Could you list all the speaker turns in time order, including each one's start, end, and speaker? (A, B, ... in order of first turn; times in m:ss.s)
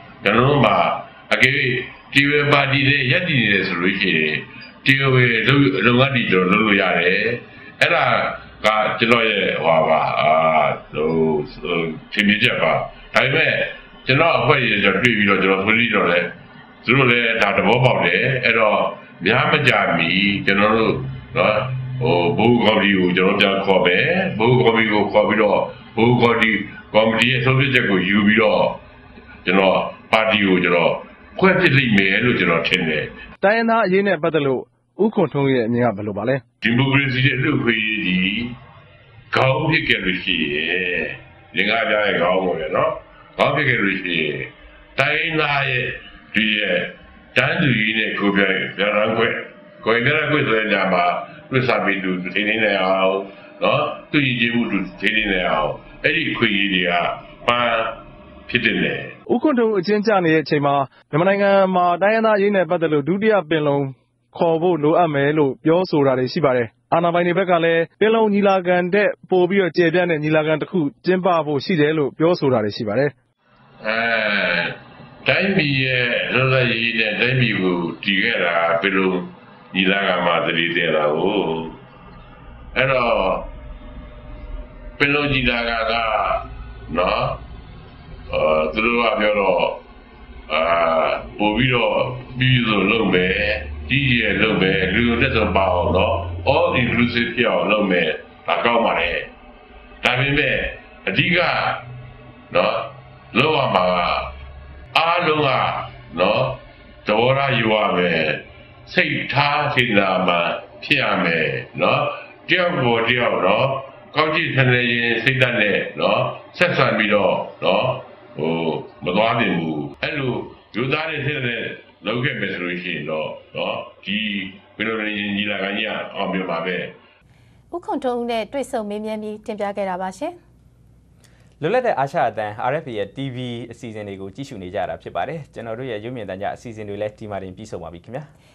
0:00.2-0:28.8 A
0:29.4-0:33.1 A
0:33.4-0:36.4 B
0:36.6-0:38.6 A
0:39.3-0:59.1 A
0:59.3-1:13.1 B
1:13.8-1:21.8 A
1:22.7-1:23.5 A
1:25.0-1:27.4 A
1:28.3-1:29.8 A
1:30.5-1:39.3 A
1:40.0-1:41.8 A
1:42.5-1:44.3 A
1:44.9-2:07.0 A
2:07.7-2:10.4 C
2:11.6-2:18.3 D